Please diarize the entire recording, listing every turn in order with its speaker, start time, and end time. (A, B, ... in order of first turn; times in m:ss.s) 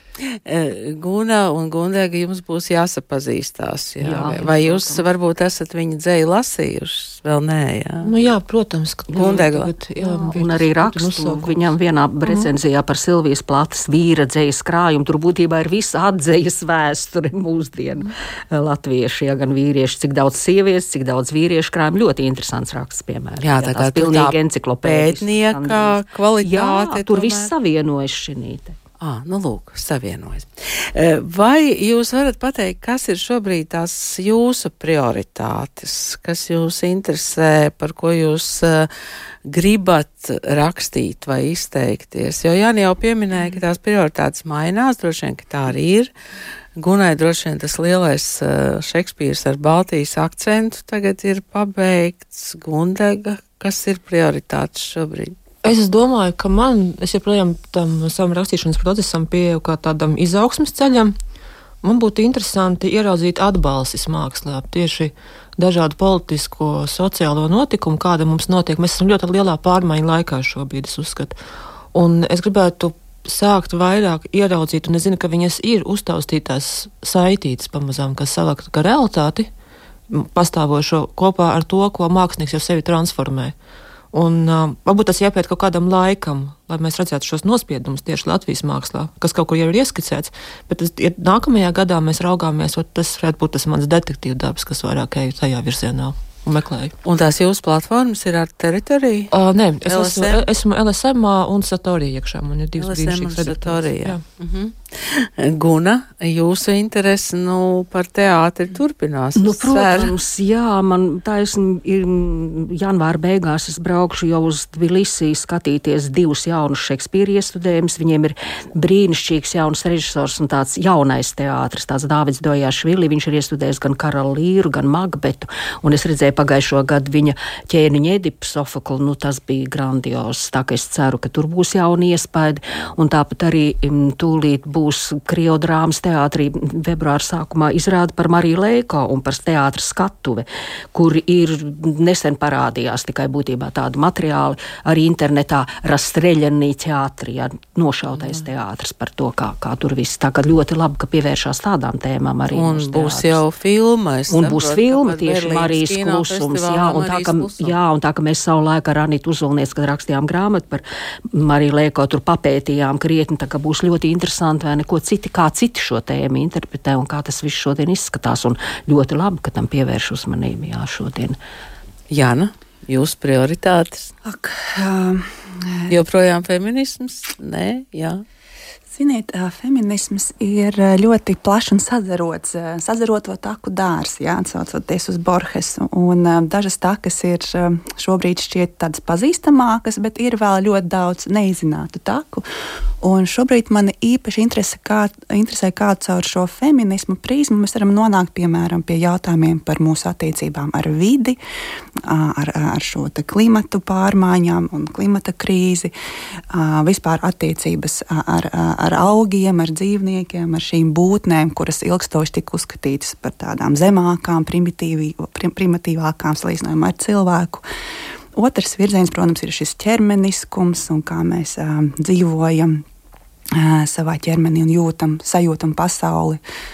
0:00.2-0:08.1 A
0:04.0-0:04.9 B
0:04.2-0:04.9 C
0:08.0-0:11.6 C
0:09.1-0:09.7 A
0:10.0-0:28.8 B
0:12.2-0:12.5 C
0:23.4-0:27.5 A
0:29.0-0:38.9 A
0:39.4-0:46.1 A
0:46.8-0:55.4 A
0:55.6-1:01.1 C
1:01.8-1:11.4 C
1:11.9-1:19.5 C
1:20.1-1:23.6 C
1:24.1-1:36.9 C
1:37.0-1:39.3 A
1:39.3-1:44.2 C
1:39.8-1:40.4 A
1:42.8-1:50.1 A
1:49.4-2:33.4 B
2:32.5-2:37.7 A
2:34.3-2:51.4 B
2:52.1-2:54.1 A
2:54.2-2:55.9 D
2:55.9-2:58.2 A
2:58.9-3:12.4 D
3:13.0-3:21.4 D
3:22.0-3:25.9 D
3:26.5-3:37.6 D
3:38.3-3:42.8 D
3:43.5-3:46.4 D